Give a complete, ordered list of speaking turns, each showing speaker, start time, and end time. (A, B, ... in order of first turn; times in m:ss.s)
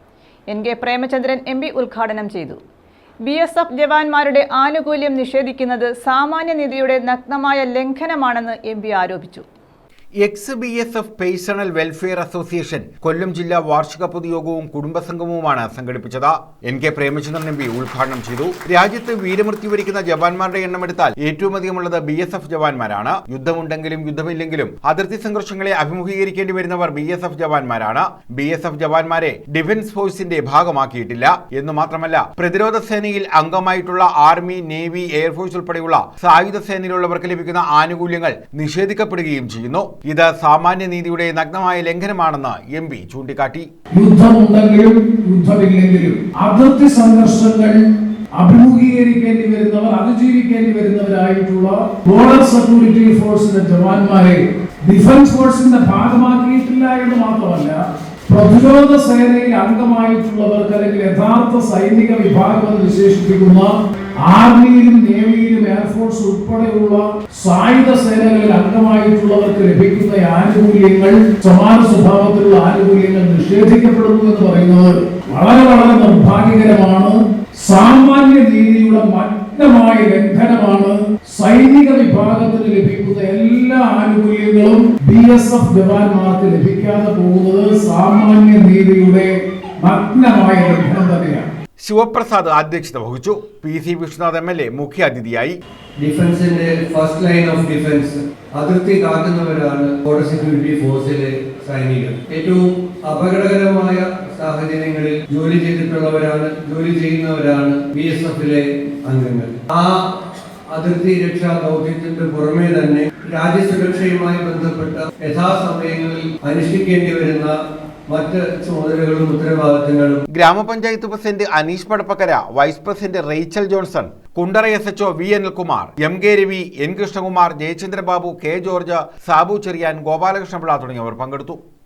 0:00.5-0:02.6 A
0:03.2-0:09.4 A
0:10.2-0:43.7 B
0:43.9-0:47.8 C
0:48.4-1:31.4 C
1:31.8-1:35.6 B
1:36.0-1:50.0 D
1:50.7-1:57.5 D
1:58.1-2:00.2 D
2:00.3-2:11.6 B